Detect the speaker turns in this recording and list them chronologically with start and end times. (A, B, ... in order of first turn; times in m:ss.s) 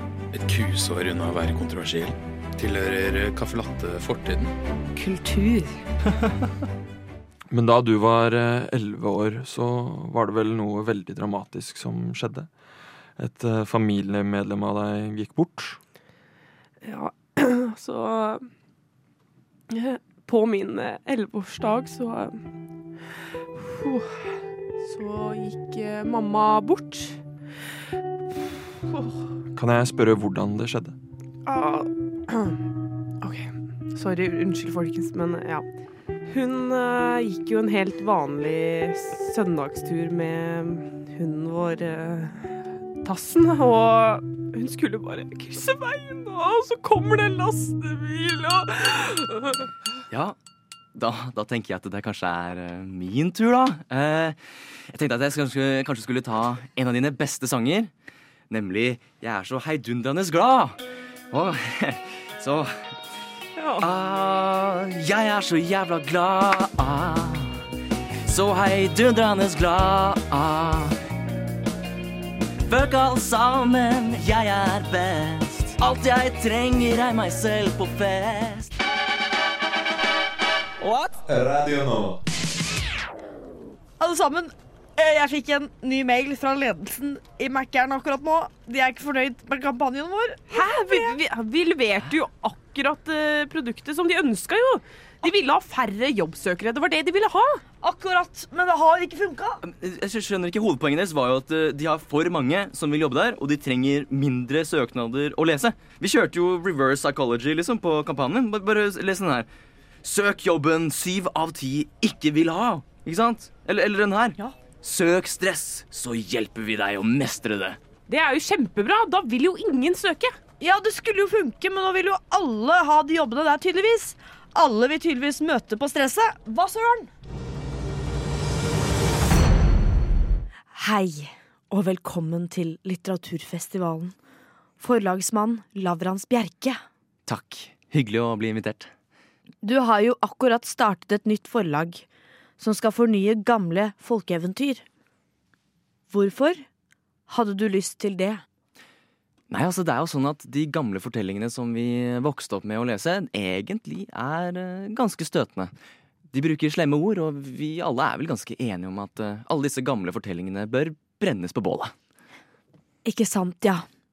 0:00.3-0:04.5 A
0:07.5-0:12.5 B
0:13.2-0:15.8 B
0:16.8-0:18.5 C
0:19.7-0:22.4 C
0:23.6-0:27.2 C
0:28.9-0:29.2 C
0:29.5-0:30.9 B
0:31.4-0:32.6 C
0:33.2-0:35.6 C
0:36.3-0:49.7 C
0:50.1-0:50.4 D
0:50.9-0:54.4 D
0:54.9-0:57.9 D
0:58.5-1:00.8 D
1:01.3-1:02.8 D
1:03.6-1:03.9 C
1:03.8-1:07.6 D
1:08.2-1:10.9 D
1:12.6-1:18.7 D
1:20.8-1:21.1 E
1:21.3-1:22.2 B
1:24.0-1:31.2 E
1:30.5-1:37.6 C
1:37.8-1:39.6 E
1:39.6-1:49.5 D
1:50.0-1:57.8 D
1:58.1-2:00.4 C
2:00.6-2:07.1 E
2:10.7-2:14.1 E
2:14.8-2:16.8 E
2:17.2-2:18.9 D
2:19.6-2:22.0 E
2:22.6-2:24.8 E
2:26.1-2:26.6 E
2:27.3-2:28.4 E
2:29.5-2:35.7 D
2:36.3-2:41.9 D
2:43.0-2:43.8 E